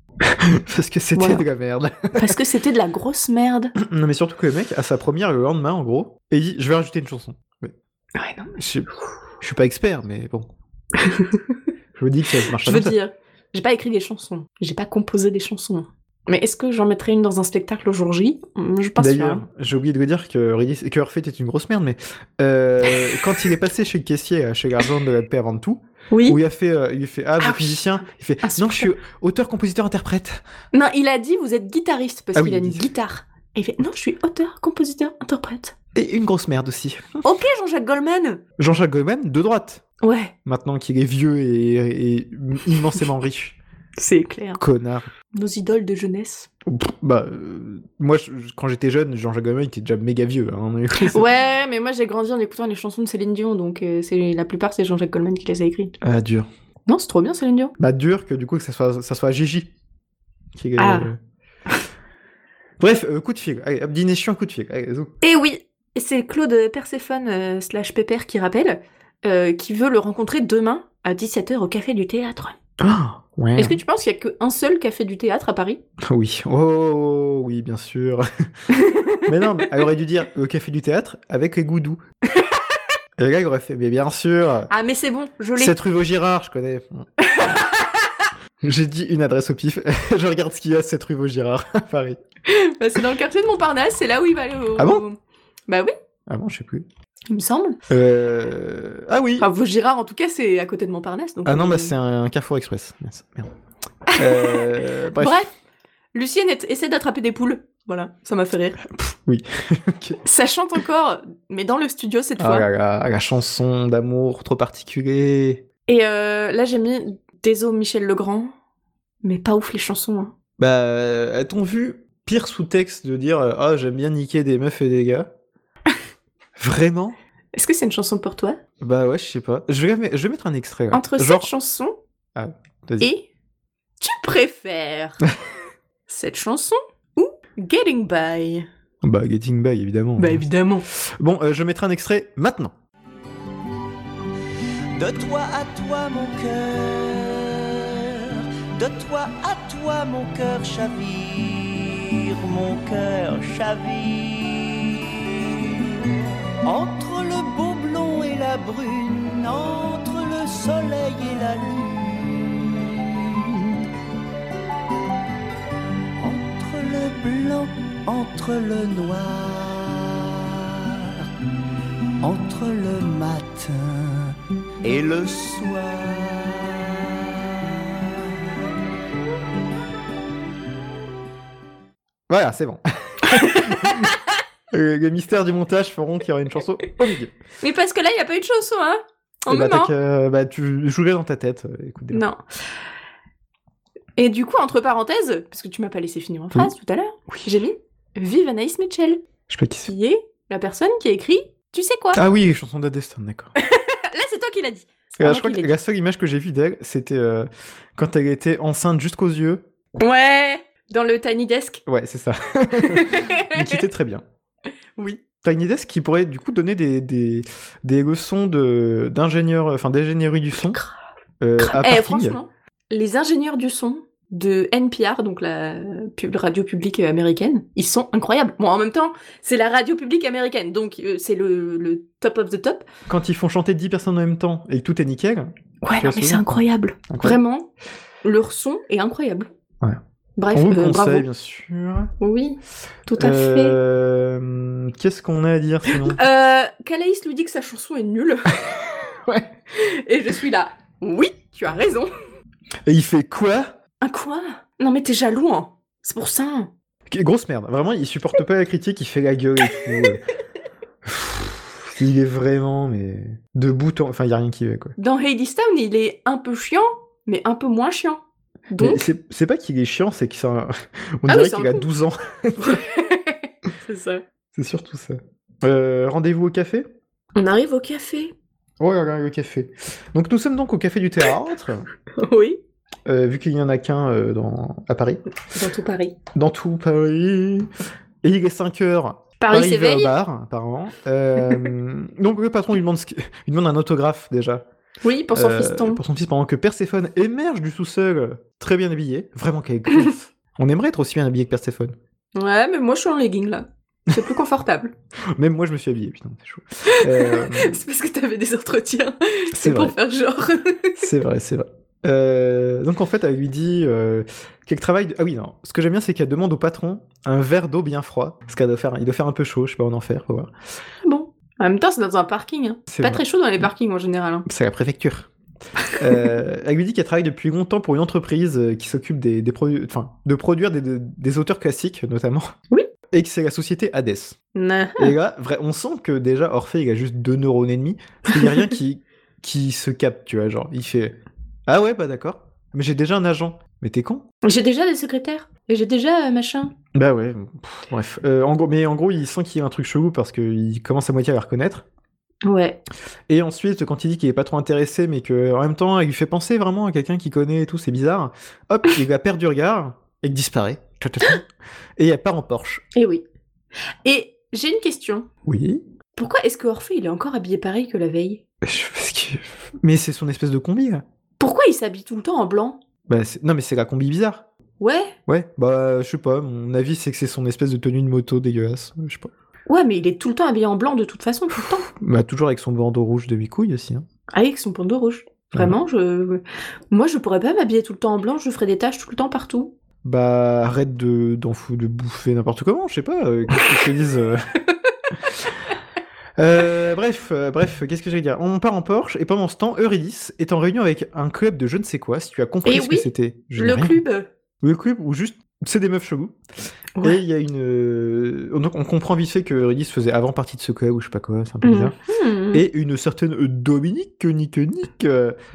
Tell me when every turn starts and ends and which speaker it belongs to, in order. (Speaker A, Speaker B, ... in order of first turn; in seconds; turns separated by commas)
Speaker A: 0.2-2.4, Speaker B: 1.1-1.4, Speaker B: 2.1-3.7, Speaker A: 3.8-7.7, Speaker B: 8.1-8.6, Speaker A: 8.6-8.9, Speaker A: 9.4-10.5, Speaker B: 11.0-11.5, Speaker A: 12.0-12.9, Speaker B: 12.6-19.4, Speaker A: 19.0-30.4, Speaker B: 26.1-26.4, Speaker B: 27.4-28.9, Speaker B: 30.7-35.7, Speaker A: 32.3-32.9, Speaker A: 35.9-37.2, Speaker B: 37.2-38.4, Speaker A: 38.6-39.8, Speaker B: 40.0-40.3, Speaker A: 40.4-43.6, Speaker B: 44.0-44.6, Speaker A: 44.6-45.1, Speaker B: 45.3-46.5, Speaker A: 46.6-51.2, Speaker B: 51.0-55.9, Speaker A: 56.0-56.5, Speaker B: 56.9-57.7, Speaker A: 57.8-59.7, Speaker A: 60.5-61.2, Speaker B: 60.8-61.1, Speaker A: 62.8-65.1, Speaker B: 65.2-72.5, Speaker A: 72.8-73.8, Speaker B: 73.5-75.8, Speaker A: 76.0-78.3, Speaker B: 78.7-79.7, Speaker A: 79.2-82.0, Speaker A: 83.2-84.7, Speaker B: 84.7-85.7, Speaker A: 85.6-87.1, Speaker B: 87.2-88.1, Speaker A: 88.6-92.2, Speaker B: 92.4-95.2, Speaker A: 94.8-95.0, Speaker B: 95.7-95.9, Speaker A: 96.3-96.8, Speaker B: 97.3-97.8, Speaker A: 97.9-99.5, Speaker B: 99.4-101.9, Speaker A: 101.4-103.5, Speaker B: 104.1-105.5, Speaker A: 104.1-105.4, Speaker B: 106.1-108.8, Speaker A: 108.8-110.2, Speaker B: 110.2-112.7, Speaker A: 112.4-115.6, Speaker B: 115.9-118.5, Speaker B: 119.2-120.3, Speaker A: 120.6-125.3, Speaker A: 126.6-127.2, Speaker B: 127.5-128.6, Speaker A: 128.8-131.5, Speaker B: 130.9-131.9, Speaker A: 132.3-133.1, Speaker B: 133.0-133.2, Speaker B: 134.0-135.2, Speaker B: 136.1-138.7, Speaker A: 139.0-142.7, Speaker B: 140.2-140.8, Speaker C: 144.9-163.8, Speaker C: 166.2-171.3, Speaker C: 172.2-177.4, Speaker A: 182.3-184.1, Speaker B: 183.3-184.1, Speaker A: 184.7-187.3, Speaker B: 187.6-189.9, Speaker A: 189.5-192.2, Speaker B: 192.1-192.4, Speaker B: 194.2-199.2, Speaker A: 199.5-199.9, Speaker B: 199.8-202.2, Speaker A: 202.1-203.5, Speaker B: 203.6-205.7, Speaker A: 205.2-209.6, Speaker B: 210.0-211.8, Speaker A: 211.8-214.2, Speaker B: 212.8-213.8, Speaker A: 215.4-220.8, Speaker B: 220.7-220.9, Speaker A: 221.4-222.4, Speaker B: 221.6-232.8, Speaker A: 233.1-236.5, Speaker B: 235.8-237.7, Speaker A: 237.1-237.4, Speaker B: 238.2-239.5, Speaker B: 240.4-241.3, Speaker A: 240.5-242.1, Speaker B: 242.2-243.8, Speaker A: 243.2-246.2, Speaker B: 245.9-248.6, Speaker A: 248.7-249.5, Speaker B: 249.7-252.1, Speaker A: 252.8-253.7, Speaker B: 254.0-256.7, Speaker A: 257.1-260.2, Speaker A: 261.0-264.9, Speaker B: 265.0-269.1, Speaker A: 268.8-272.8, Speaker B: 271.3-271.9, Speaker B: 272.6-274.2, Speaker A: 274.5-276.9, Speaker B: 277.3-278.3, Speaker A: 278.8-281.8, Speaker B: 282.1-282.6, Speaker A: 283.1-285.2, Speaker B: 285.5-286.2, Speaker A: 286.3-287.7, Speaker A: 288.2-294.6, Speaker B: 289.4-290.1, Speaker B: 295.0-296.0, Speaker A: 295.3-301.9, Speaker B: 302.3-304.9, Speaker A: 305.4-307.8, Speaker B: 306.9-311.1, Speaker A: 309.5-309.9, Speaker A: 311.0-320.5, Speaker B: 321.0-324.4, Speaker A: 322.9-323.2, Speaker A: 324.4-325.3, Speaker A: 325.9-332.5, Speaker A: 333.1-334.4, Speaker B: 334.5-335.1, Speaker A: 335.0-344.2, Speaker B: 344.4-346.7, Speaker A: 346.9-351.8, Speaker B: 352.4-352.8, Speaker A: 353.3-362.8, Speaker B: 362.9-363.2, Speaker B: 364.0-365.3, Speaker A: 365.4-365.8, Speaker B: 366.1-368.4, Speaker A: 368.6-371.0, Speaker B: 371.4-372.8, Speaker A: 373.1-374.4, Speaker B: 374.8-375.1, Speaker A: 375.3-379.3, Speaker B: 379.7-381.9, Speaker A: 381.8-384.1, Speaker B: 384.3-389.7, Speaker A: 390.0-394.4, Speaker A: 396.4-404.0, Speaker B: 402.6-404.3, Speaker A: 404.6-406.4, Speaker A: 407.0-411.9, Speaker B: 411.6-412.6, Speaker A: 412.5-415.4